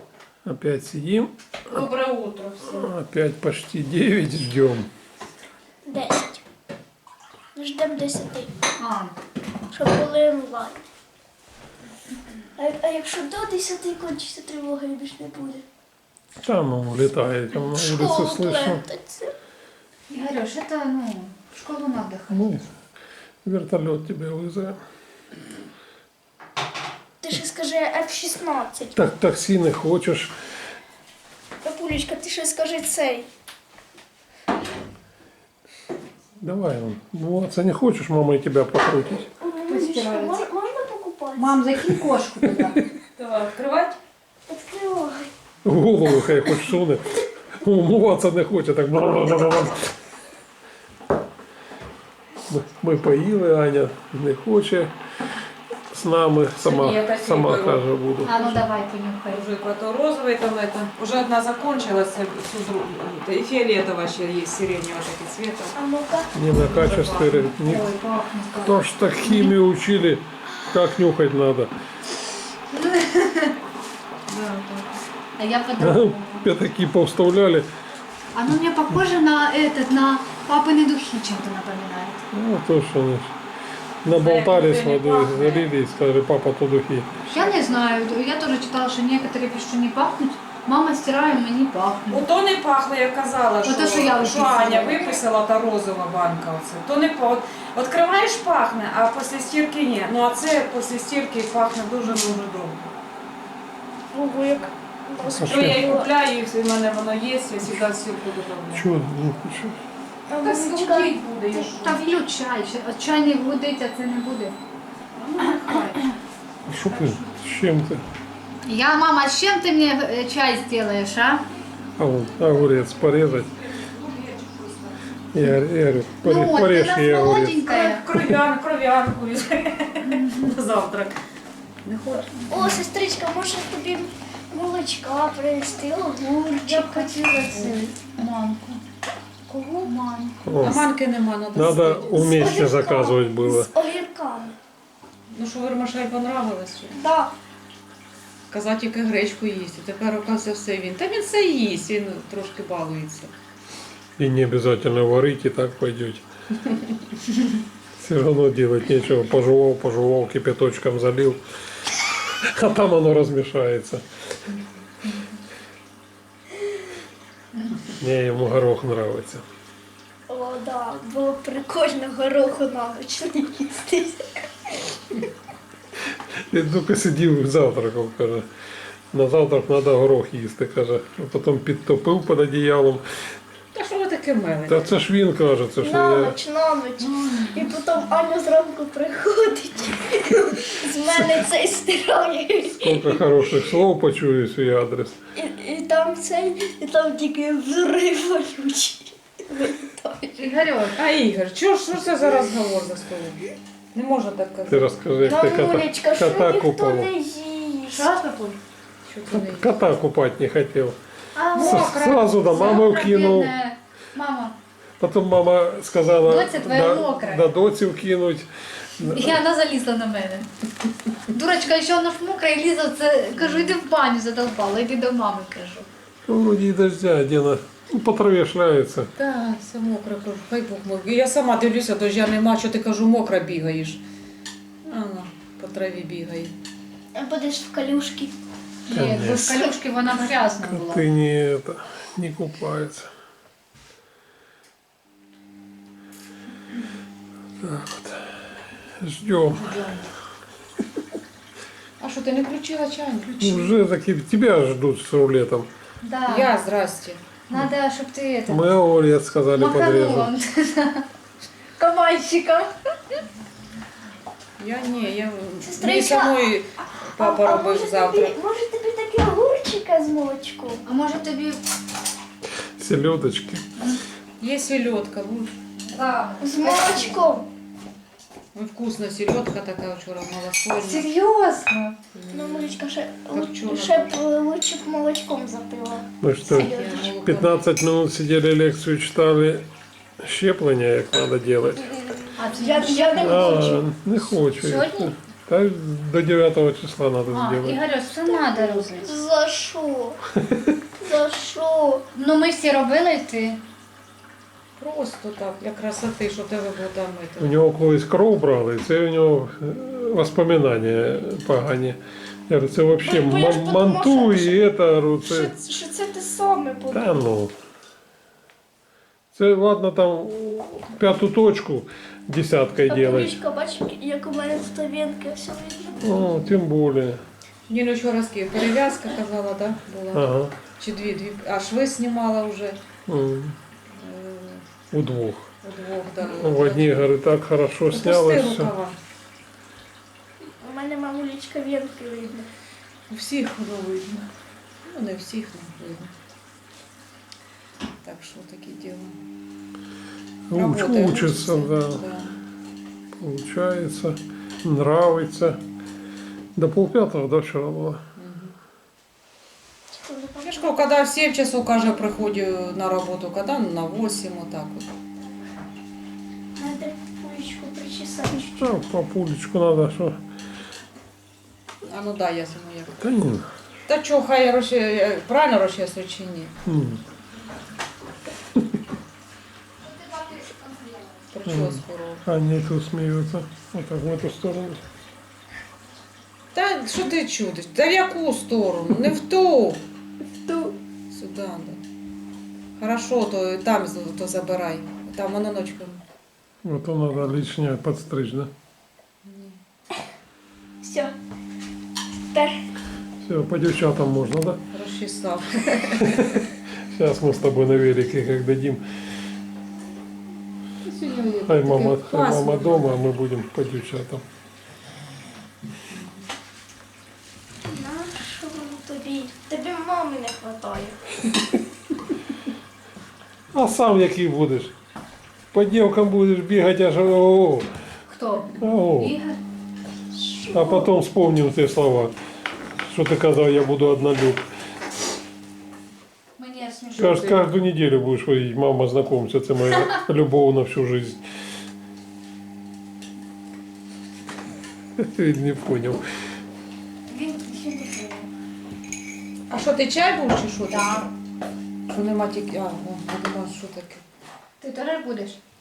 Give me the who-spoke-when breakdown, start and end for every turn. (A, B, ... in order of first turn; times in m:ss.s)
0:00.4-0:01.8 A
0:01.7-0:02.9 B
0:02.6-0:04.9 A
0:05.8-0:06.4 C
0:07.5-0:08.6 C
0:08.8-0:09.1 D
0:09.7-0:10.8 C
0:12.6-0:15.6 C
0:16.4-0:18.8 A
0:17.6-0:19.3 C
0:20.1-0:22.5 D
0:22.3-0:22.7 A
0:23.4-0:24.8 A
0:27.2-0:29.0 C
0:29.0-0:30.3 A
0:31.6-0:33.3 C
0:36.4-0:39.3 A
0:39.4-0:41.8 C
0:39.7-0:40.5 D
0:41.4-0:42.8 D
0:43.2-0:44.0 B
0:44.5-0:45.3 C
0:45.6-0:49.9 A
0:52.5-0:55.0 A
0:55.9-0:58.4 A
0:56.6-0:58.5 B
0:58.2-0:59.4 D
0:59.3-1:05.8 B
1:05.7-1:06.3 C
1:06.3-1:07.9 A
1:06.6-1:07.4 B
1:06.8-1:09.5 D
1:08.6-1:11.7 A
1:12.7-1:13.5 D
1:14.3-1:15.0 B
1:15.4-1:16.5 D
1:15.8-1:17.7 A
1:18.3-1:22.2 D
1:22.3-1:23.4 A
1:24.0-1:27.2 A
1:24.1-1:25.7 B
1:27.2-1:27.9 B
1:27.3-1:32.2 D
1:32.1-1:42.9 B
1:33.6-1:35.2 D
1:44.1-1:46.1 C
1:45.2-1:45.9 A
1:45.4-1:48.9 B
1:48.7-1:49.8 A
1:50.3-1:51.8 C
1:50.4-1:52.0 B
1:51.7-1:54.6 D
1:55.2-1:55.9 B
1:55.4-1:56.1 D
1:56.6-1:58.0 A
1:58.6-2:01.4 D
2:02.0-2:03.5 A
2:03.6-2:05.0 B
2:05.3-2:07.6 A
2:06.2-2:08.1 D
2:07.7-2:11.2 B
2:10.0-2:10.6 D
2:11.8-2:12.7 B
2:12.5-2:17.2 C
2:16.2-2:18.8 D
2:16.6-2:17.8 B
2:19.5-2:19.9 B
2:19.8-2:20.4 D
2:20.4-2:20.8 A
2:20.6-2:22.2 B
2:21.5-2:23.7 A
2:22.1-2:24.6 C
2:25.3-2:27.0 B
2:26.9-2:27.3 C
2:28.5-2:33.3 B
2:34.2-2:36.2 A
2:38.0-2:41.4 A
2:42.2-2:44.1 A
2:48.0-2:49.5 A
2:50.3-2:55.2 C
2:56.1-2:58.5 A
2:59.1-3:03.4 A
3:03.7-3:04.9 B
3:04.7-3:06.4 A
3:05.8-3:13.4 C
3:07.0-3:07.6 D
3:12.8-3:15.2 A
3:15.3-3:20.5 C
3:20.4-3:21.0 D
3:20.9-3:25.0 B
3:24.7-3:27.1 A
3:25.2-3:28.1 C
3:27.9-3:28.6 D
3:29.0-3:29.9 B
3:29.3-3:31.0 A
3:31.3-3:34.6 D
3:31.5-3:32.4 B
3:31.6-3:33.5 A
3:35.0-3:39.4 A
3:36.2-3:37.5 D
3:39.0-3:40.5 D
3:41.3-3:45.9 D
3:43.4-3:43.8 B
3:46.2-3:49.1 A
3:49.2-3:54.0 B
3:54.8-3:56.5 B
3:57.1-3:58.3 C
3:58.9-4:01.0 D
3:58.9-3:59.6 A
4:00.6-4:03.1 A
4:07.6-4:09.8 A
4:09.5-4:10.1 D
4:12.0-4:13.6 B
4:13.4-4:15.7 A
4:16.0-4:16.5 D
4:16.3-4:17.2 B
4:17.5-4:18.6 D
4:18.5-4:20.3 A
4:19.5-4:21.1 D
4:21.8-4:23.2 D
4:24.6-4:28.4 B
4:25.6-4:30.8 C
4:30.9-4:31.6 D
4:32.8-4:33.7 A
4:34.4-4:35.8 B
4:35.9-4:37.2 D
4:36.4-4:37.5 C
4:38.5-4:41.1 B
4:40.8-4:42.0 D
4:42.1-4:42.8 B
4:42.3-4:47.1 C
4:43.3-4:44.2 B
4:46.2-4:49.7 A
4:46.5-4:47.6 B
4:50.2-4:51.9 A
4:52.0-4:53.8 C
4:52.4-4:53.7 D
4:53.2-4:57.8 A
4:54.6-4:55.1 D
4:57.3-4:59.2 D
4:58.2-5:00.2 C
5:00.4-5:00.8 A
5:01.0-5:02.0 C
5:02.1-5:03.6 D
5:04.8-5:07.6 B
5:07.4-5:15.5 A
5:13.0-5:14.7 C
5:15.2-5:17.1 C
5:16.9-5:17.5 A
5:19.3-5:23.4 A
5:22.9-5:26.2 C
5:26.0-5:27.2 A
5:27.7-5:32.8 B
5:30.1-5:30.5 A
5:33.1-5:33.6 A
5:33.9-5:34.7 B
5:34.9-5:35.5 A
5:35.6-5:37.1 B
5:36.2-5:38.7 A
5:37.9-5:39.0 B
5:40.4-5:42.5 C
5:43.1-5:44.3 B
5:44.8-5:46.1 B
5:48.0-5:49.2 B
5:50.5-5:52.1 A
5:50.5-5:52.4 B
5:53.2-5:55.6 A
5:56.6-5:58.0 A
5:58.2-5:58.6 B
5:59.9-6:00.7 C
6:00.4-6:04.9 B
6:06.6-6:08.8 C
6:08.6-6:10.2 A
6:11.8-6:13.1 B
6:13.0-6:13.5 A
6:13.9-6:16.6 B
6:16.6-6:17.0 A
6:19.8-6:21.3 D
6:21.3-6:22.2 B
6:21.5-6:24.8 A
6:26.5-6:29.8 B
6:30.4-6:30.8 C
6:31.1-6:31.8 B
6:32.8-6:36.0 B
6:36.6-6:38.5 A
6:39.2-6:39.6 B
6:40.8-6:41.1 C
6:42.3-6:42.6 C
6:43.2-6:44.6 A
6:44.7-6:46.1 B
6:46.0-6:48.8 A
6:50.8-6:53.0 B
6:51.4-6:54.2 A
6:57.6-7:01.0 C
7:03.5-7:04.7 A
7:05.5-7:07.8 A
7:08.1-7:09.4 D
7:08.6-7:09.2 A
7:10.1-7:10.9 C
7:10.5-7:12.2 A
7:12.8-7:14.5 A
7:16.4-7:17.4 D
7:17.0-7:21.2 A
7:25.0-7:26.0 A
7:27.1-7:27.9 D
7:27.2-7:28.3 C
7:29.5-7:31.1 B
7:30.7-7:31.1 D
7:31.9-7:34.0 B
7:34.6-7:35.4 D